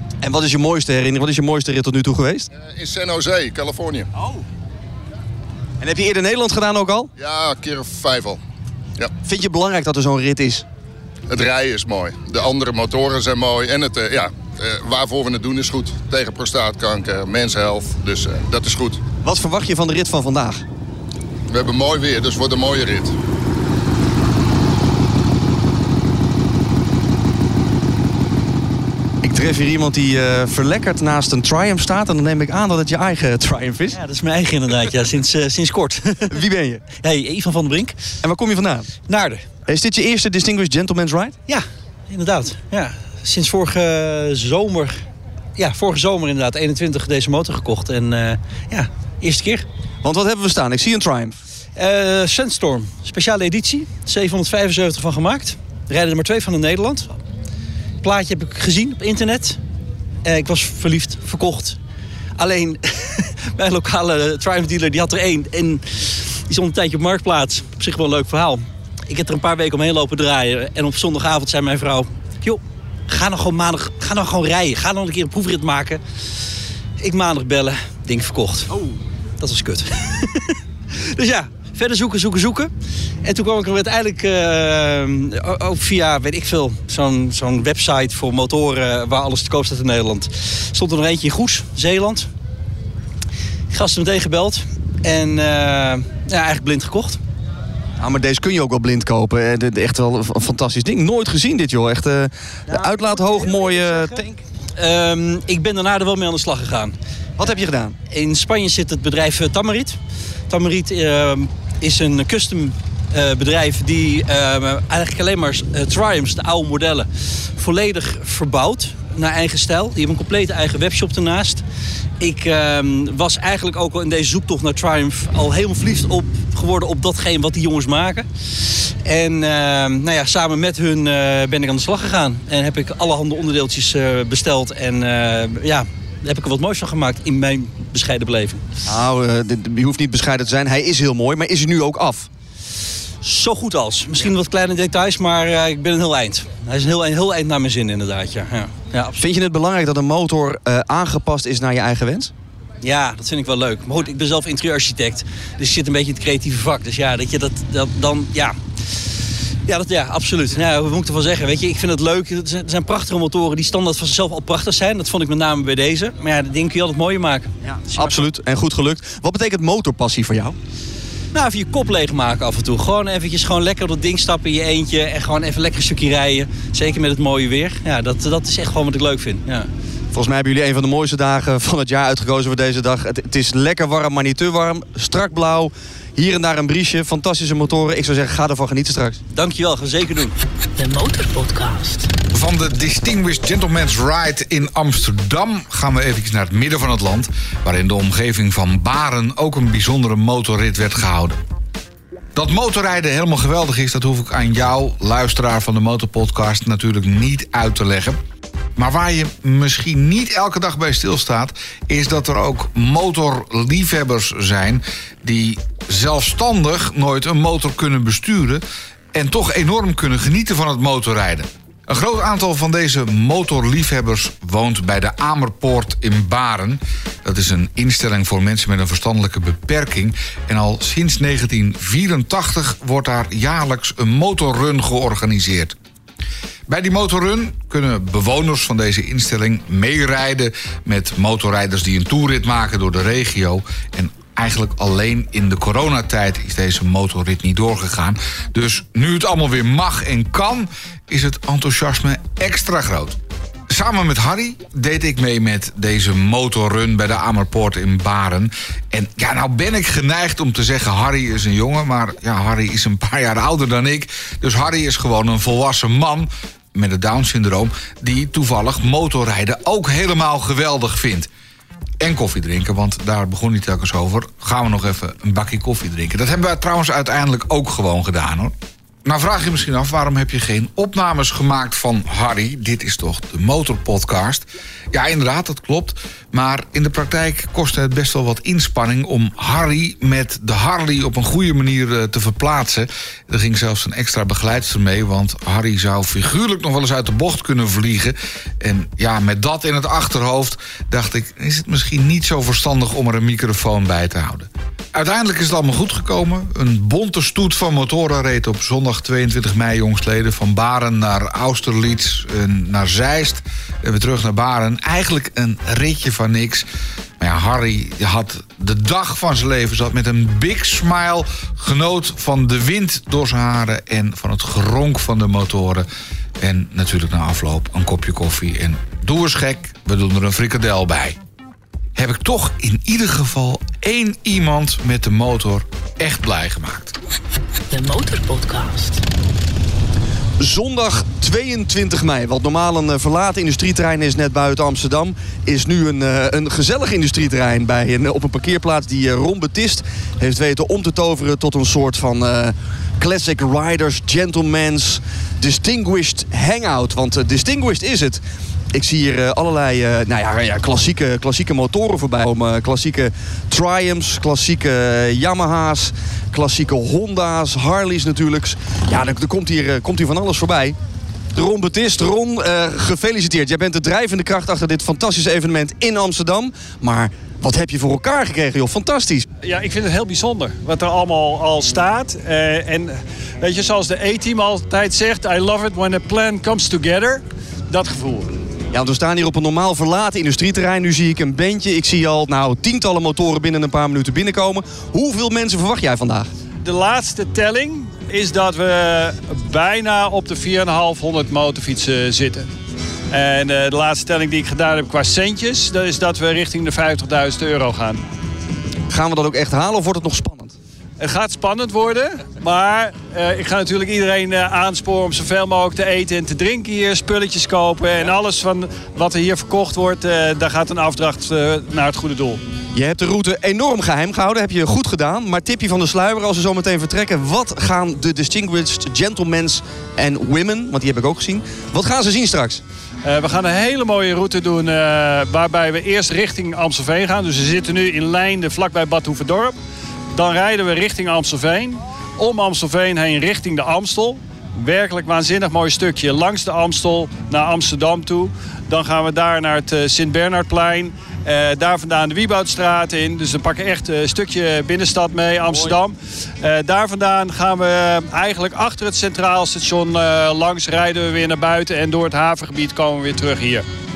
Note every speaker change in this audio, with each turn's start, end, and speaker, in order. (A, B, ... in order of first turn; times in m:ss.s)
0:00.2-0:02.5 A
0:02.5-0:04.1 B
0:05.8-0:07.1 A
0:07.2-0:08.4 B
0:09.2-0:10.7 A
0:11.3-0:19.0 B
0:19.2-0:20.6 A
0:21.5-0:23.2 B
0:29.2-0:34.0 A
0:33.9-0:36.4 C
0:36.3-0:36.8 A
0:36.9-0:38.0 C
0:38.2-0:38.9 A
0:39.0-0:39.5 C
0:39.7-0:41.4 A
0:41.5-0:45.0 C
0:45.6-0:49.7 C
0:50.0-0:51.4 A
0:51.8-0:57.2 C
0:58.0-0:59.6 C
1:00.2-1:01.8 C
1:02.4-1:16.0 C
1:17.0-1:22.7 C
1:23.2-1:32.3 C
1:33.7-1:37.2 C
1:38.0-1:44.3 A
1:42.7-2:01.6 C
1:47.4-1:48.0 A
2:02.2-2:08.3 C
2:09.0-2:18.6 C
2:18.9-2:22.3 A
2:23.2-2:29.2 C
2:29.2-2:32.3 A
2:32.8-2:38.6 C
2:39.7-2:48.3 C
2:47.9-2:50.6 A
2:51.3-2:59.7 C
3:00.1-3:09.2 A
3:09.3-3:10.3 C
3:10.8-3:12.1 D
3:12.3-3:21.4 E
3:22.4-3:28.2 E
3:28.8-3:55.8 E
3:56.7-4:13.2 E
4:13.7-4:31.3 E
4:32.0-4:38.5 E
4:39.0-5:16.7 E
5:17.2-5:25.9 E
5:26.4-5:31.2 E
5:32.0-5:37.0 E
5:37.7-5:39.0 D
5:40.4-6:10.8 A
6:11.4-6:19.3 A
6:19.4-6:28.3 F
6:28.7-6:36.3 A
6:36.6-6:42.5 F
6:43.1-6:48.0 F
6:48.9-6:50.6 A
6:51.0-7:02.4 F
7:02.7-7:12.6 A
7:13.0-7:19.6 F
7:20.1-7:43.7 F